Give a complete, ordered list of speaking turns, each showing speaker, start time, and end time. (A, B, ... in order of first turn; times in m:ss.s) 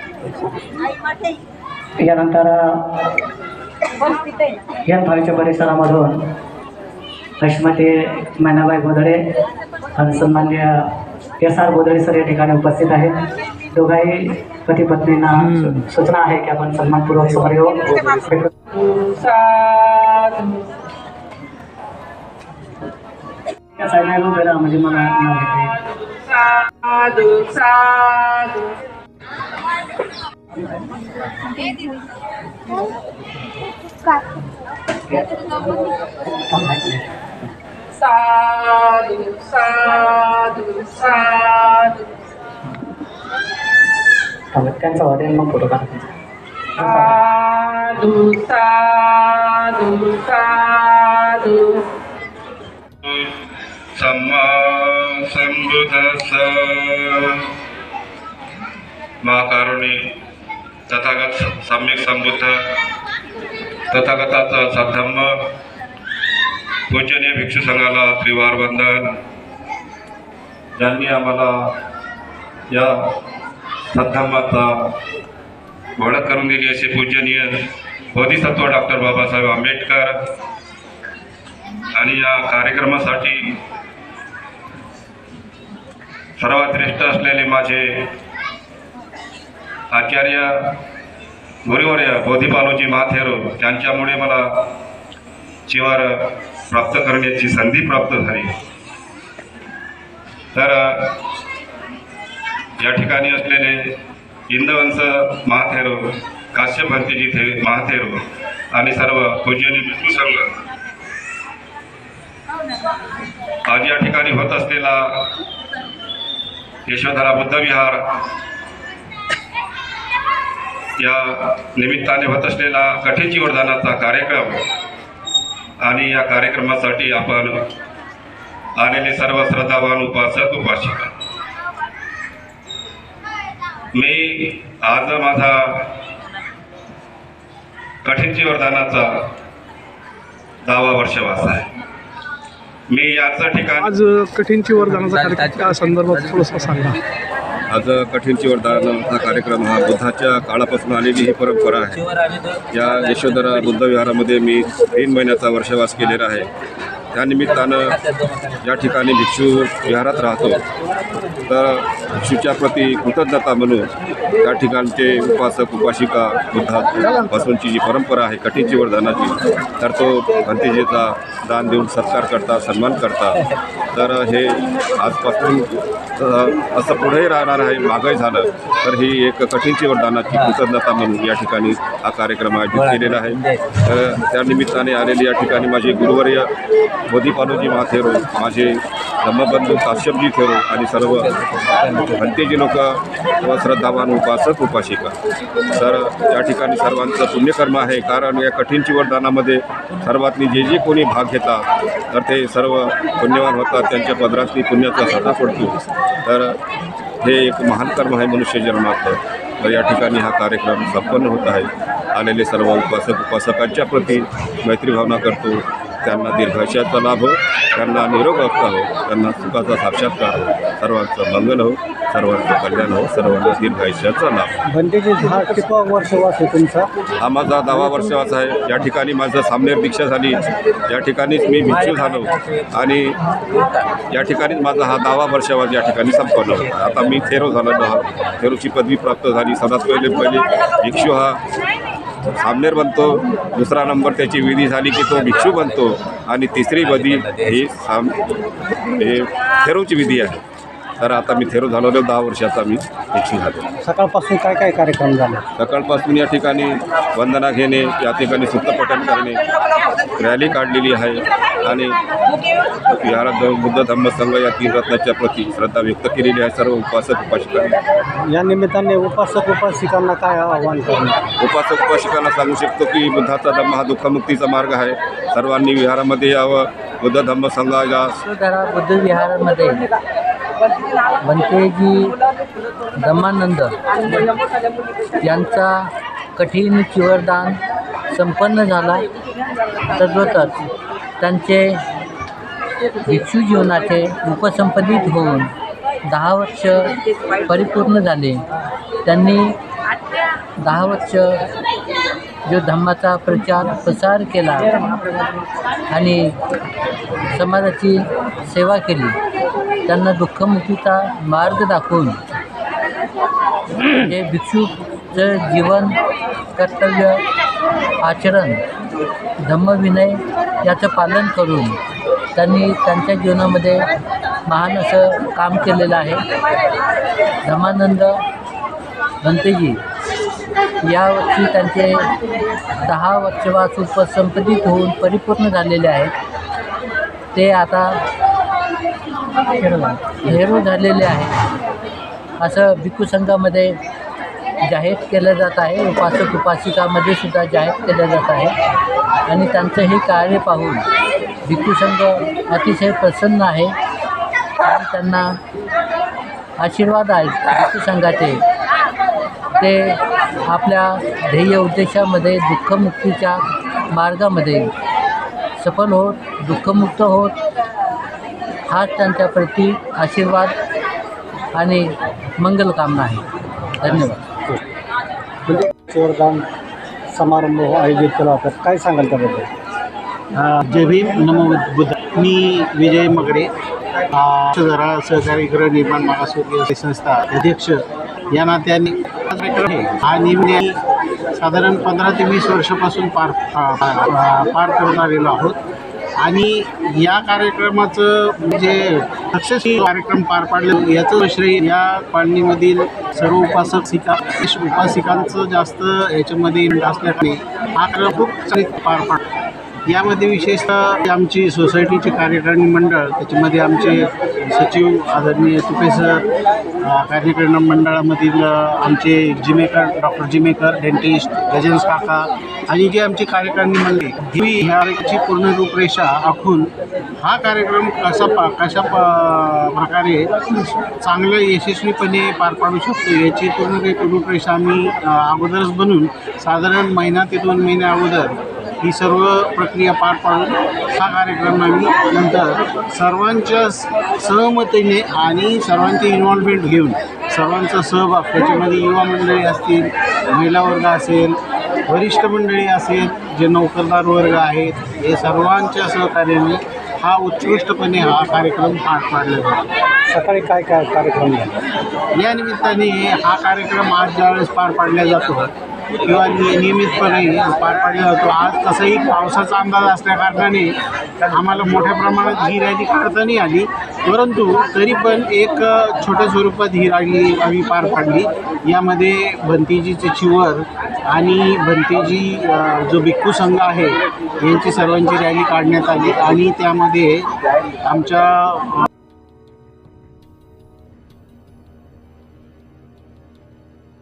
0:02.0-0:02.9 A
0:04.8-0:06.3 A
0:07.4-0:09.3 A
0:10.0-0:18.5 A
0:18.8-0:20.6 B
0:23.8-0:25.8 A
0:26.4-0:28.7 B
0:35.1-0:35.4 A
0:36.5-0:37.1 A
0:38.0-0:42.0 B
0:44.5-0:46.1 A
0:46.8-0:47.3 A
0:47.3-0:51.8 B
0:53.0-0:53.4 C
0:53.9-0:57.5 C
0:59.2-1:00.1 C
1:00.9-1:02.8 C
1:03.9-1:05.5 C
1:06.9-1:09.2 C
1:10.8-1:11.7 C
1:13.9-1:14.9 C
1:16.0-1:20.2 C
1:21.9-1:23.6 C
1:26.4-1:28.1 C
1:29.9-1:30.8 C
1:31.6-1:34.7 C
1:35.7-1:38.6 C
1:40.5-1:41.2 C
1:42.8-1:44.0 C
1:44.5-1:50.5 C
1:53.7-1:55.3 C
1:56.8-1:58.2 C
2:01.0-2:04.7 C
2:05.8-2:07.6 C
2:08.8-2:11.1 C
2:13.9-2:15.9 C
2:18.0-2:19.3 C
2:20.6-2:21.7 C
2:22.9-2:23.9 C
2:23.8-2:27.0 D
2:27.7-2:32.1 C
2:32.7-2:36.5 C
2:37.1-2:38.0 C
2:38.6-2:40.6 C
2:41.5-3:06.5 C
3:07.1-3:15.1 C
3:15.7-3:26.6 C
3:27.2-3:44.6 C
3:44.7-3:46.9 E
3:47.2-3:53.2 C
3:54.1-4:01.4 C
4:02.3-4:08.2 C
4:09.0-4:10.4 C
4:11.0-4:13.7 C
4:13.8-4:15.4 E
4:15.6-4:19.4 C
4:20.2-4:22.0 C
4:22.9-4:27.8 C
4:28.3-4:31.3 E
4:31.4-4:38.1 C
4:38.2-4:39.8 F
4:41.2-4:42.2 F
4:43.0-4:43.8 F
4:45.2-4:47.6 F
4:48.1-4:49.1 F
4:49.9-4:50.6 F
4:51.2-4:51.8 F
4:53.0-4:55.5 F
4:56.0-4:58.4 F
4:59.0-4:59.6 F
5:00.6-5:01.4 F
5:02.4-5:04.8 F
5:05.9-5:06.3 F
5:07.3-5:09.2 F
5:09.8-5:12.2 F
5:13.9-5:16.0 F
5:16.5-5:17.2 F
5:18.0-5:18.6 F
5:19.4-5:21.8 F
5:22.3-5:23.9 F
5:24.5-5:26.2 F
5:27.4-5:28.2 F
5:29.2-5:29.8 F
5:30.8-5:32.1 F
5:32.8-5:36.1 F
5:37.3-5:38.0 F
5:39.5-5:41.4 F
5:42.4-5:43.8 F
5:44.6-5:48.5 F
5:49.3-5:50.8 F
5:51.4-5:53.7 F
5:54.6-5:55.4 F
5:56.6-5:58.4 F
5:59.5-6:04.7 F
6:05.6-6:07.4 F
6:08.7-6:10.5 F
6:11.5-6:13.2 F
6:13.8-6:14.2 F
6:14.3-6:14.6 E
6:15.4-6:16.5 E
6:17.1-6:19.5 E
6:20.3-6:23.5 G
6:24.1-6:30.8 G
6:31.3-6:35.6 G
6:36.2-6:49.2 G
6:49.9-6:56.3 G
6:56.8-7:10.3 G
7:11.0-7:39.7 G
7:40.1-7:41.6 E
7:42.2-7:50.8 G
7:51.3-8:07.3 G
8:07.8-8:08.8 G